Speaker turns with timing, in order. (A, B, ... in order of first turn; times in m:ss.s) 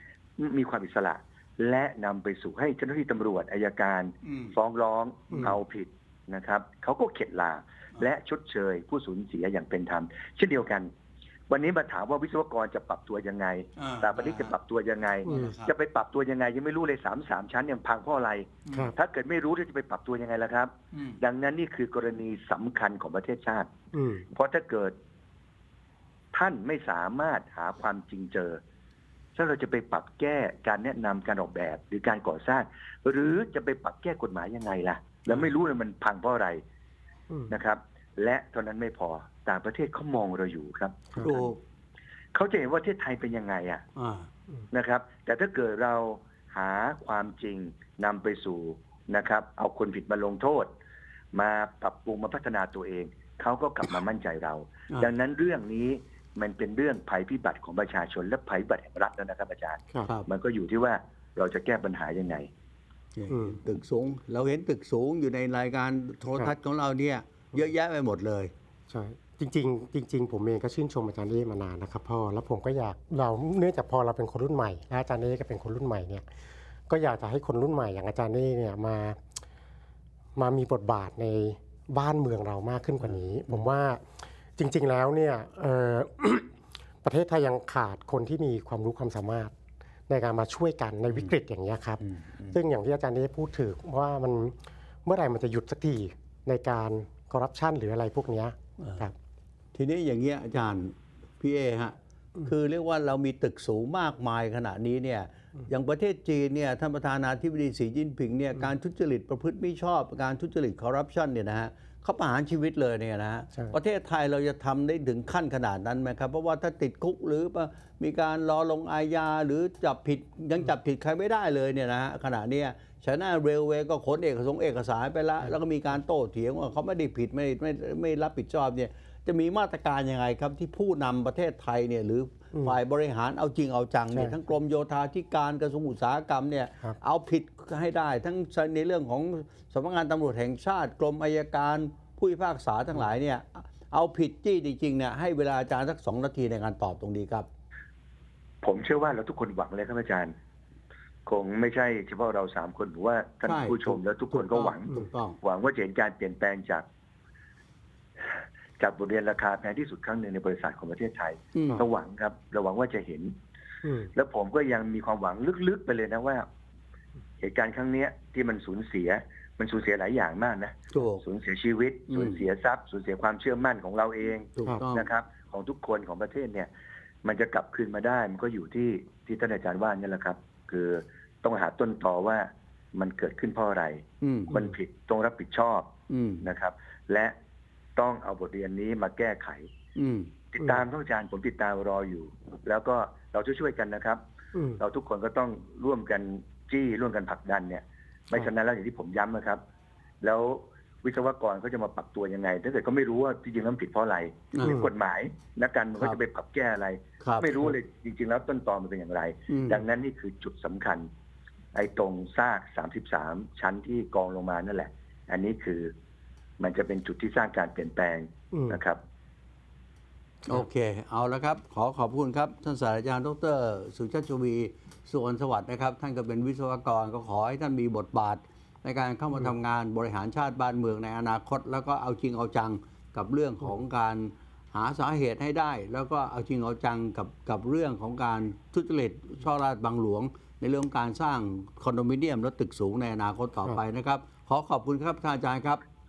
0:00.4-0:10.9 A
0:04.2-0:04.5 B
0:05.3-0:05.6 B
0:11.5-0:23.7 A
0:13.8-0:14.5 B
0:15.2-0:15.6 C
0:15.3-0:15.7 B
0:18.6-0:18.9 B
0:20.9-0:21.2 B
0:23.9-0:24.2 C
0:24.3-0:24.9 A
0:26.3-0:28.6 A
0:29.3-0:36.6 A
0:35.3-0:35.5 B
0:37.5-0:41.4 A
0:41.1-0:41.4 C
0:41.2-0:41.6 B
0:42.3-0:43.8 A
0:44.0-0:44.3 B
0:44.7-0:50.7 A
0:51.3-1:02.5 A
1:00.0-1:00.3 B
1:03.1-1:08.5 B
1:03.3-1:03.6 C
1:08.9-1:16.3 C
1:16.9-1:19.2 C
1:20.4-1:24.0 C
1:23.0-1:23.6 B
1:24.6-1:26.5 C
1:27.0-1:29.5 C
1:30.1-1:39.1 C
1:32.0-1:32.5 B
1:38.8-1:39.1 B
1:39.7-2:27.5 B
2:14.1-2:14.4 C
2:28.6-2:30.3 A
2:31.2-2:36.8 A
2:33.4-2:35.4 B
2:38.8-2:43.3 A
2:41.5-2:41.8 B
2:43.8-2:44.1 C
2:44.1-2:46.4 A
2:47.4-2:56.7 A
2:50.9-2:51.2 B
2:52.1-2:52.4 B
2:54.6-2:55.1 B
2:57.2-3:05.9 A
3:04.2-3:04.5 B
3:06.1-3:06.4 B
3:06.4-3:07.3 A
3:08.0-3:09.7 A
3:10.0-3:10.3 B
3:10.5-3:14.2 A
3:14.5-3:14.8 C
3:14.8-3:19.6 A
3:20.2-3:31.1 A
3:24.6-3:24.9 C
3:27.2-3:27.6 B
3:29.5-3:29.8 B
3:31.7-3:35.9 A
3:36.6-3:39.0 A
3:38.5-3:38.8 C
3:40.5-4:05.8 B